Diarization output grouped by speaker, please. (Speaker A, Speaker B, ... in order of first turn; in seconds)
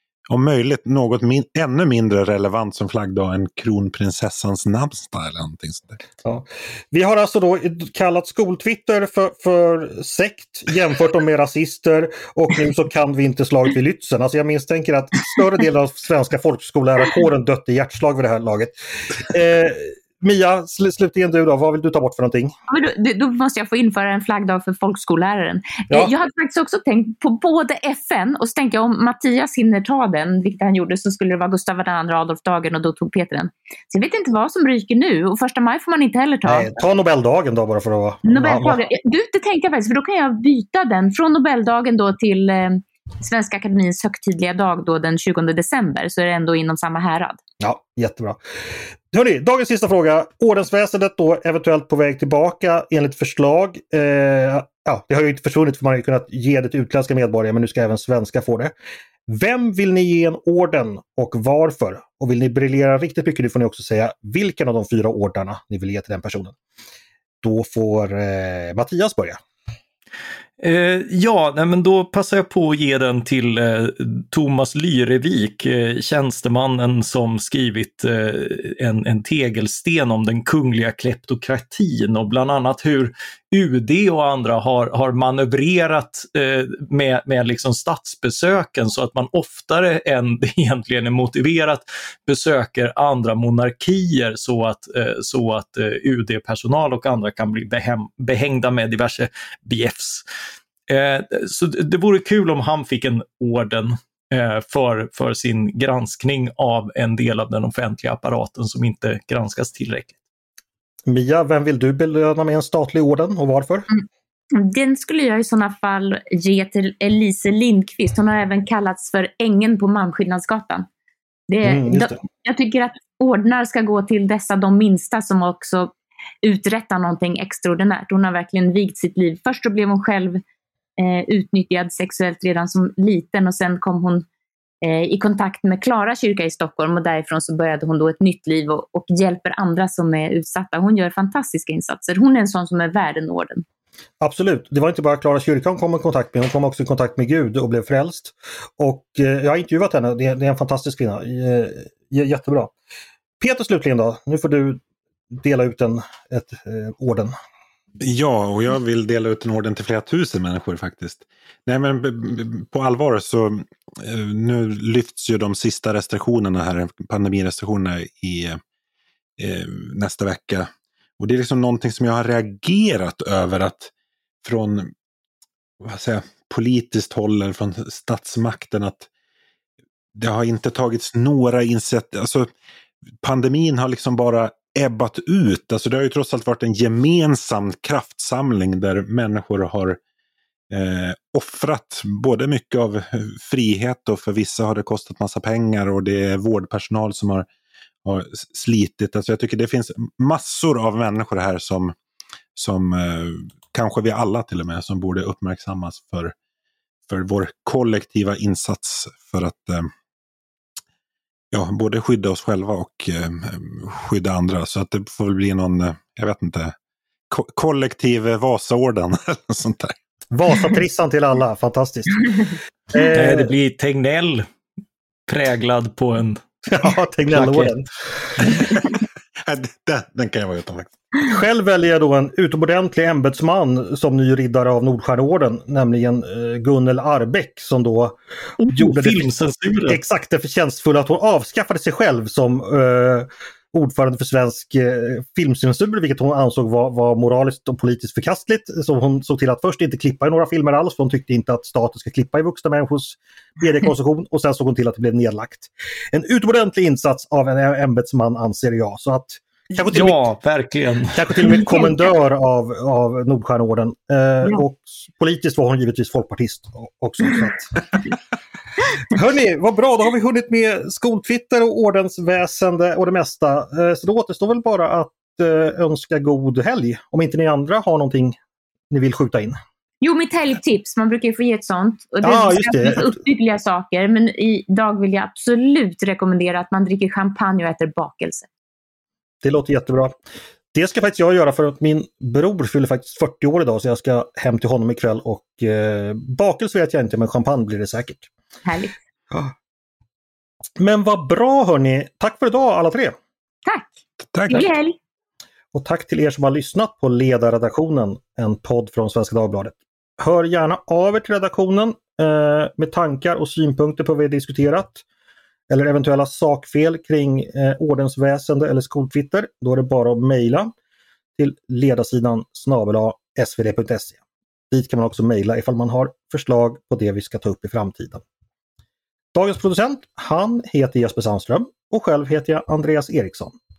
Speaker A: 0.3-6.0, 158.0-168.6, 169.4-173.9, 174.4-174.9, 175.8-179.1, 180.2-182.5, 183.2-190.0, 190.7-197.5, 198.1-201.9, 202.6-206.3, 207.1-209.9, 211.5-216.7, 217.3-220.0, 228.5-230.9, 304.2-304.7
Speaker B: 6.2-22.5, 36.5-38.8, 47.6-48.4, 49.1-58.7, 59.3-66.5, 67.4-69.4, 111.1-113.9, 121.7-122.2, 144.2-152.7, 153.4-154.8, 155.3-157.3, 220.3-222.3, 222.9-223.5, 226.7-228.5, 231.2-260.2, 261.1-267.9, 269.0-278.4, 278.9-279.6, 282.2-283.1, 289.4-290.1, 290.7-298.3, 300.8-303.2, 305.7-315.0, 315.7-320.7, 321.4-324.2, 324.7-328.2, 329.3-333.6
Speaker C: 22.7-36.8, 38.2-47.4, 114.5-120.9, 121.5-125.9, 126.4-130.4, 131.0-134.2, 134.8-143.6, 280.0-288.5, 298.6-298.9, 303.6-303.9, 304.5-305.0
Speaker D: 70.6-100.2, 100.9-110.2, 223.1-224.5, 225.3-226.4, 227.3-227.8, 238.6-240.0, 259.9-261.7